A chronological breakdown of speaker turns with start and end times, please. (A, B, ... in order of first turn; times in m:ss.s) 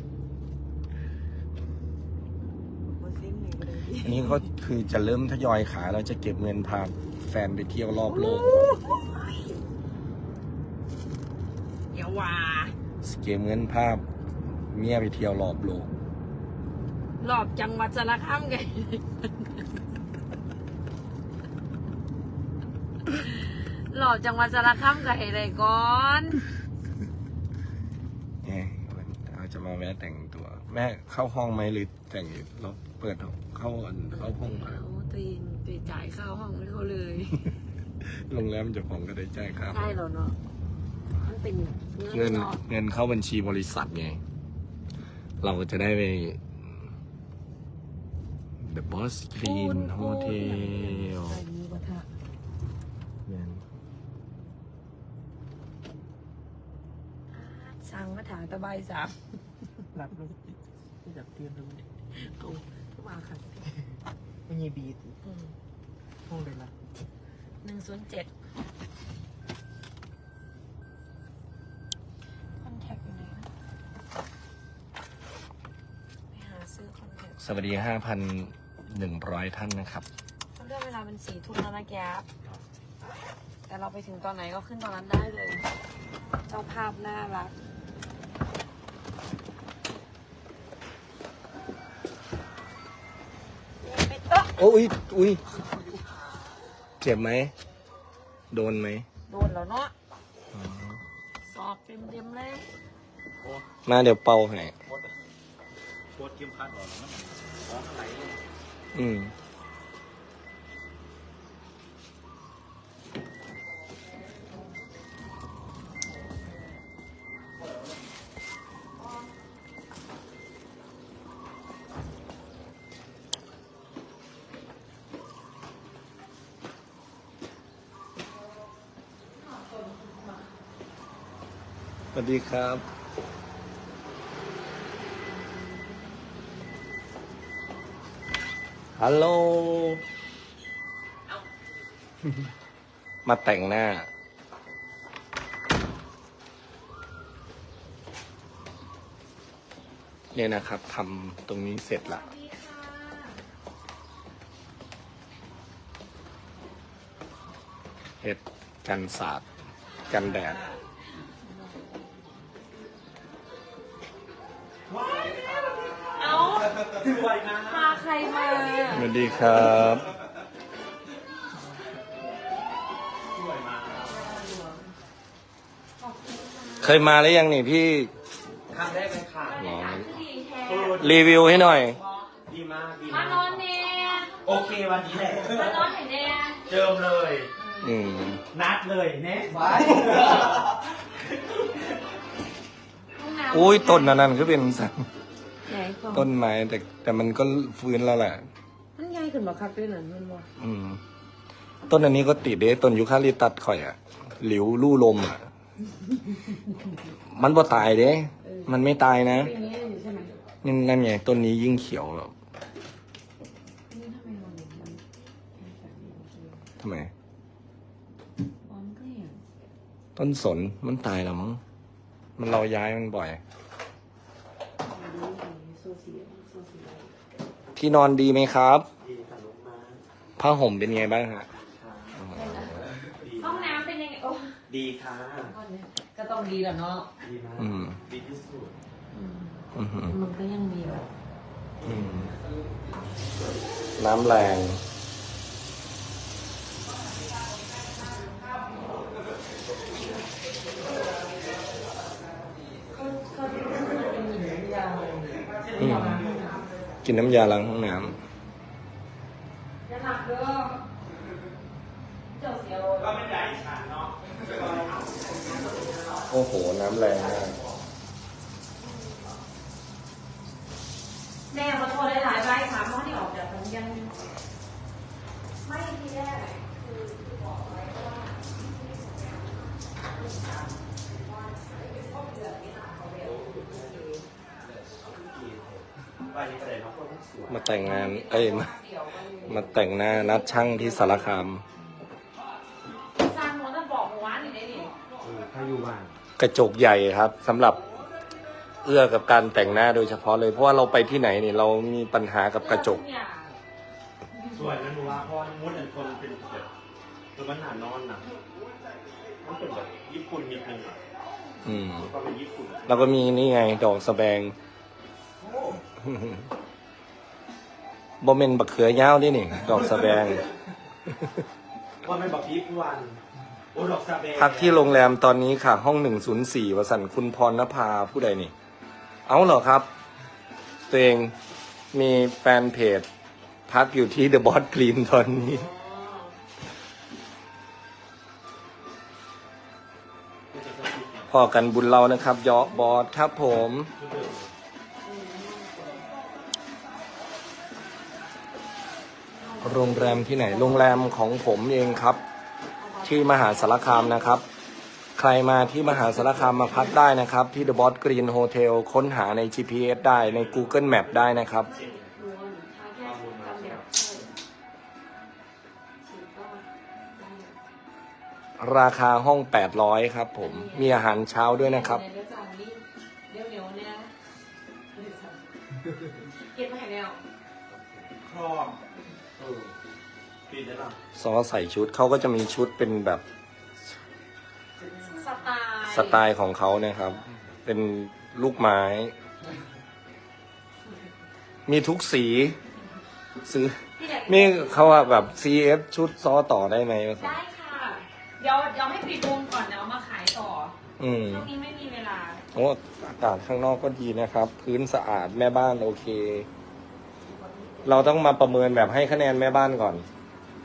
0:02.9-0:04.4 A
0:04.0-0:08.7 B
0:08.0-0:09.6 A
0:11.9-0:12.7 A
0:13.0-0:14.0 B
0:14.7-0:15.9 B
0:17.2-0:19.6 A
0:23.1-0:26.4 A
0:28.4-0:34.8 B
0:34.1-0:37.6 A
0:38.0-0:39.9 B
0:39.7-0:40.4 A
0:41.2-0:42.6 A
0:42.1-0:44.2 B
0:45.4-0:46.4 B
0:48.6-0:51.4 B
0:49.4-0:52.1 A
0:53.2-0:53.6 B
0:57.3-0:59.2 A
0:59.9-1:00.5 C
1:01.0-1:01.8 C
1:02.1-1:03.6 A
1:04.5-1:05.2 C
1:05.2-1:05.6 A
1:06.3-1:06.7 C
1:07.6-1:08.3 A
1:12.6-1:13.5 A
1:16.3-1:17.6 A
1:17.4-1:20.1 B
1:20.6-1:22.3 A
1:23.7-1:25.7 A
1:26.5-1:27.5 A
1:33.8-1:34.6 A
1:34.6-1:35.4 B
1:37.0-1:37.5 B
1:38.5-1:39.1 B
1:39.3-1:39.9 A
1:40.5-1:41.0 B
1:41.5-1:42.7 A
1:43.8-1:44.7 B
1:46.2-1:48.4 C
1:48.9-1:49.3 B
2:09.3-2:10.5 A
2:12.1-2:12.8 B
2:19.0-2:20.0 B
2:23.2-2:24.1 B
2:30.3-2:32.2 B
2:32.0-2:33.4 A
2:38.2-2:39.4 B
2:40.1-2:40.6 B
2:44.9-2:48.0 C
2:46.1-2:46.8 A
2:47.6-2:49.9 A
2:48.9-2:50.1 B
2:53.3-2:54.2 C
2:54.0-2:54.9 A
2:56.0-2:57.0 A
2:56.8-2:58.1 B
2:58.7-2:59.6 C
2:59.4-3:02.3 A
2:59.6-3:00.1 B
3:00.6-3:01.6 C
3:01.0-3:02.0 B
3:02.4-3:03.6 C
3:03.1-3:04.4 A
3:04.4-3:05.9 C
3:05.4-3:06.6 A
3:06.7-3:07.5 C
3:07.6-3:07.9 A
3:07.8-3:08.4 B
3:08.5-3:10.6 C
3:13.2-3:14.3 A
3:13.5-3:15.0 B
3:15.7-3:16.3 A
3:16.1-3:18.4 B
3:19.0-3:20.5 A
3:20.6-3:21.0 B
3:21.9-3:25.4 B
3:27.3-3:29.5 B
3:28.4-3:30.3 A
3:30.6-3:32.3 B
3:33.9-3:36.6 A
3:36.8-3:37.1 B
3:38.6-3:39.4 A
3:40.2-3:41.6 B
3:42.4-3:43.4 B
3:44.9-3:47.1 A
3:47.8-3:48.9 B
3:49.0-3:50.0 C
3:50.4-3:51.5 B
3:51.5-3:53.8 C
3:52.2-3:52.7 B
3:52.3-3:52.7 A
3:53.3-3:54.5 A
3:54.7-3:55.6 C
3:55.4-3:57.1 A
3:57.2-3:58.7 C
3:57.6-3:58.0 B
3:59.1-4:01.1 A
3:59.7-4:00.2 B
4:01.8-4:02.3 B
4:04.0-4:04.8 B
4:12.9-4:16.6 A
4:15.8-4:16.3 B
4:17.0-4:18.2 B
4:19.8-4:20.8 A
4:22.3-4:23.2 A
4:23.0-4:26.0 C
4:25.4-4:25.8 A
4:26.3-4:27.6 B
4:27.2-4:27.6 C
4:31.5-4:34.2 A
4:35.6-4:44.2 A
4:43.2-4:44.2 C
4:44.9-4:47.6 C
4:47.5-4:48.7 B
4:47.7-4:51.5 A
4:49.4-4:51.6 B
4:53.2-4:54.9 A
4:55.2-4:56.2 C
4:56.4-4:57.8 B
4:58.8-5:03.0 B
5:02.6-5:03.6 A
5:04.5-5:06.7 C
5:07.3-5:08.3 C
5:09.4-5:11.0 C
5:11.6-5:12.1 B
5:11.7-5:13.0 C
5:12.9-5:14.6 B
5:15.4-5:15.8 C
5:16.0-5:16.4 B
5:18.2-5:20.5 B
5:22.0-5:23.2 C
5:23.7-5:24.9 C
5:24.4-5:28.5 B
5:29.2-5:29.9 B
5:30.9-5:31.3 B
5:31.9-5:33.1 B
5:33.7-5:35.7 B
5:35.4-5:36.3 A
5:40.5-5:41.3 C
5:41.3-5:43.9 B
5:44.0-5:44.5 C
5:45.0-5:46.0 A
5:49.3-5:51.2 A
5:49.6-5:52.2 B
5:52.8-5:54.4 A
5:53.0-5:54.4 B
5:55.2-6:01.7 B
6:00.2-6:02.2 C
6:01.7-6:04.3 A
6:03.0-6:03.9 C
6:06.0-6:07.6 A
6:08.6-6:12.0 B
6:10.4-6:14.1 A
6:14.9-6:15.4 A
6:16.2-6:17.2 A
6:17.7-6:18.8 C
6:19.4-6:19.7 C
6:20.5-6:21.0 C
6:21.2-6:23.2 B
6:25.0-6:26.2 A
6:25.9-6:29.2 B
6:31.7-6:32.6 B
6:33.4-6:37.4 B
6:34.0-6:35.4 A
6:37.2-6:42.4 A
6:41.0-6:41.5 B
6:42.5-6:46.5 B
6:47.2-6:48.2 A
6:47.8-6:50.0 B